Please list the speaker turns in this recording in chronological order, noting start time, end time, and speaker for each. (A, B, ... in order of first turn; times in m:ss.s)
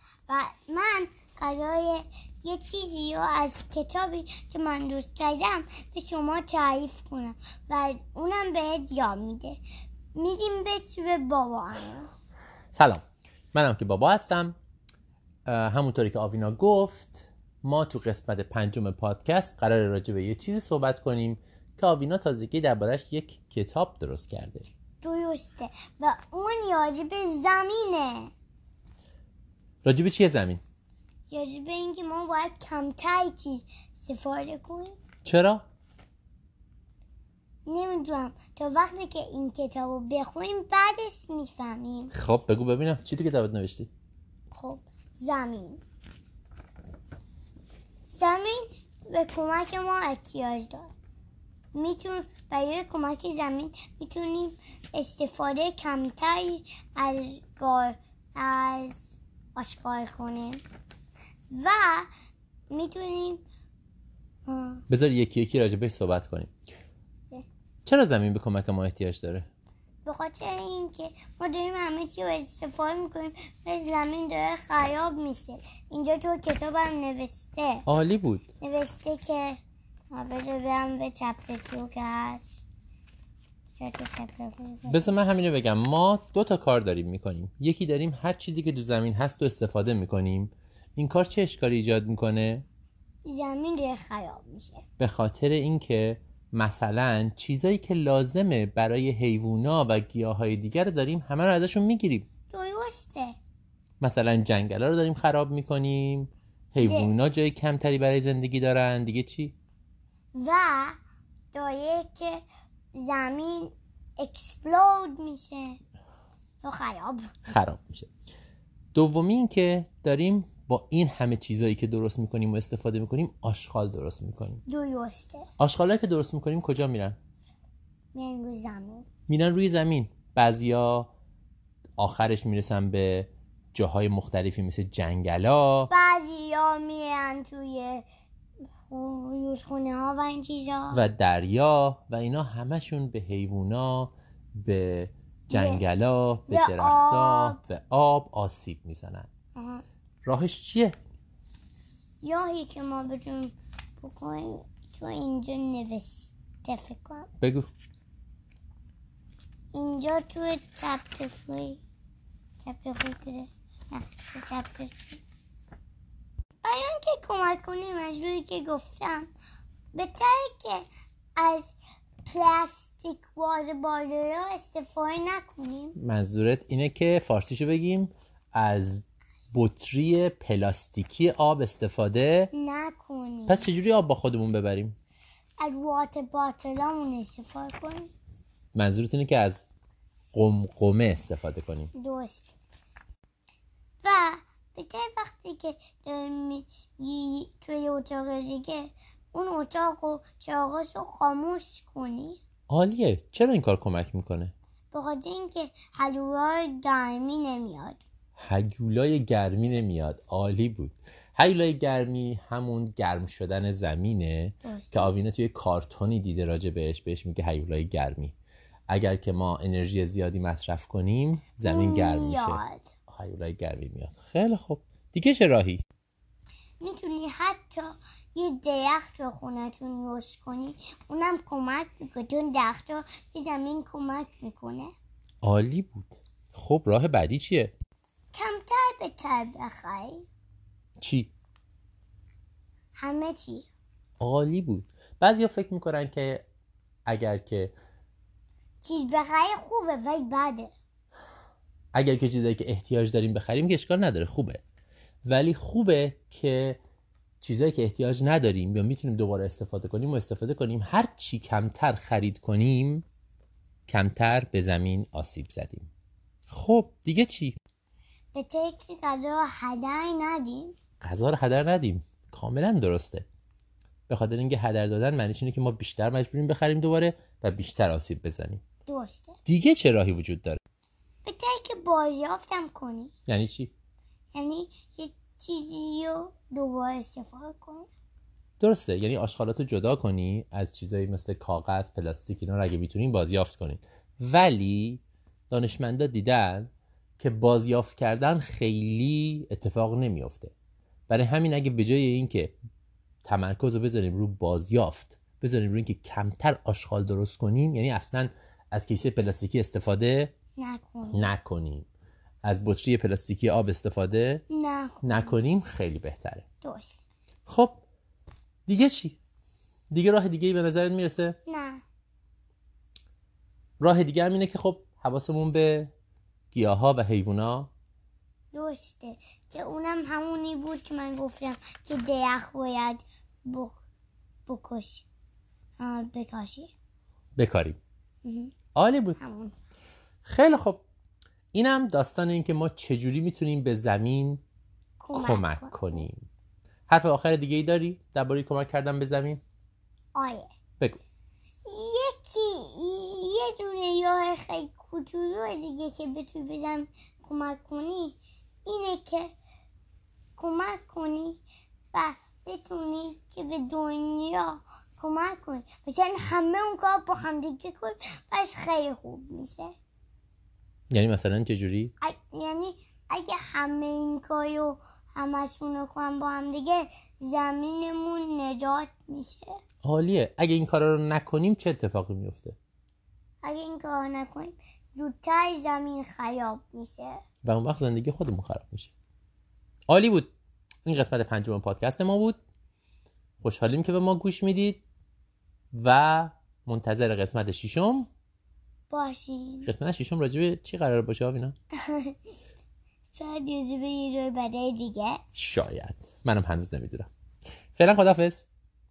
0:00.3-0:09.6 A
0:10.1-0:12.1 A
0:12.7-0:14.6 B
0:15.4-0:24.7 B
0:25.0-0:28.3 A
0:29.8-0:30.6 B
0:31.3-0:35.0 A
0:35.2-0:35.6 B
0:37.6-0:42.1 A
0:42.1-0:43.9 B
0:44.5-0:45.8 A
0:48.1-0:50.9 A
0:51.7-1:00.6 A
1:01.5-1:02.1 A
1:02.7-1:03.4 A
1:04.4-1:04.8 A
1:04.9-1:06.5 B
1:07.8-1:09.5 B
1:10.0-1:17.8 A
1:17.8-1:18.5 B
1:18.6-1:19.6 A
1:20.1-1:22.6 A
1:23.8-1:25.2 A
1:24.9-1:32.6 B
1:33.2-1:34.8 A
1:35.0-1:42.3 B
1:42.5-1:43.4 A
1:44.0-1:49.5 B
1:46.8-1:47.1 A
1:50.3-1:51.0 A
1:51.5-1:52.4 A
1:52.9-1:55.8 A
1:56.6-1:57.3 A
1:57.4-1:58.1 B
1:58.9-2:04.6 B
2:04.7-2:05.5 A
2:05.6-2:07.2 B
2:08.1-2:09.0 A
2:09.3-2:11.1 B
2:12.0-2:15.9 B
2:15.9-2:18.0 A
2:18.9-2:21.0 A
2:20.9-2:29.3 B
2:25.5-2:25.8 A
2:26.5-2:27.6 A
2:29.5-2:29.8 A
2:30.2-2:31.0 B
2:32.2-2:37.3 A
2:37.4-2:37.7 B
2:39.7-2:41.8 A
2:42.6-2:45.2 A
2:46.6-2:49.3 A
2:49.9-2:51.7 A
2:52.2-2:56.0 A
2:56.0-3:02.5 B
3:02.5-3:03.7 A
3:03.5-3:05.0 B
3:05.6-3:08.1 A
3:08.7-3:09.6 B
3:10.3-3:11.9 B
3:11.9-3:12.6 A
3:14.0-3:22.4 A
3:22.7-3:24.5 B
3:24.9-3:28.0 A
3:28.4-3:38.3 B
3:34.6-3:35.1 A
3:38.9-3:45.8 B
3:41.6-3:42.9 A
3:46.8-3:54.9 A
3:55.4-3:57.7 B
3:58.3-4:00.3 A
4:01.0-4:01.3 B
4:02.9-4:03.7 A
4:04.2-4:06.4 B
4:07.1-4:07.7 B
4:08.8-4:10.7 A
4:11.9-4:14.6 B
4:15.2-4:16.8 B
4:17.4-4:23.0 B
4:23.9-4:25.9 B
4:26.5-4:27.6 B
4:28.3-4:30.7 A
4:31.0-4:33.2 B
4:34.1-4:38.6 B
4:38.8-4:39.4 A
4:39.4-4:40.6 B
4:41.2-4:43.1 A
4:43.3-4:43.7 B
4:44.3-4:47.9 A
4:48.6-5:00.5 B
5:01.1-5:02.5 B
5:03.2-5:10.3 B
5:10.6-5:11.3 A
5:11.1-5:11.9 B
5:12.4-5:14.4 B
5:14.5-5:15.4 A
5:15.0-5:16.4 B
5:16.6-5:17.0 A
5:17.5-5:17.8 B
5:18.7-5:19.2 B
5:19.9-5:21.4 B
5:21.4-5:21.8 A
5:23.8-5:25.9 B
5:26.5-5:27.7 B
5:28.5-5:33.8 A
5:34.5-5:35.0 A
5:35.8-5:36.7 A
5:37.4-5:37.8 B
5:38.2-5:38.5 A
5:38.7-5:39.2 B
5:39.2-5:39.5 A
5:40.2-5:40.8 B
5:41.5-5:44.4 B
5:45.0-5:46.0 A
5:45.1-5:46.2 B
5:46.9-5:49.4 B
5:50.1-5:50.5 A
5:51.6-5:59.3 A
6:00.4-6:01.4 A
6:01.9-6:09.7 A
6:10.9-6:11.9 B
6:12.0-6:19.5 A
6:19.8-6:22.6 B
6:23.4-6:27.2 A
6:27.4-6:28.9 B
6:29.9-6:30.3 B
6:30.8-6:32.4 B
6:33.4-6:34.8 B
6:35.7-6:38.1 B
6:38.9-6:39.7 A
6:39.6-6:41.5 B
6:41.8-6:42.2 A
6:43.1-6:45.2 A
6:45.3-6:47.1 B
6:47.8-6:48.5 B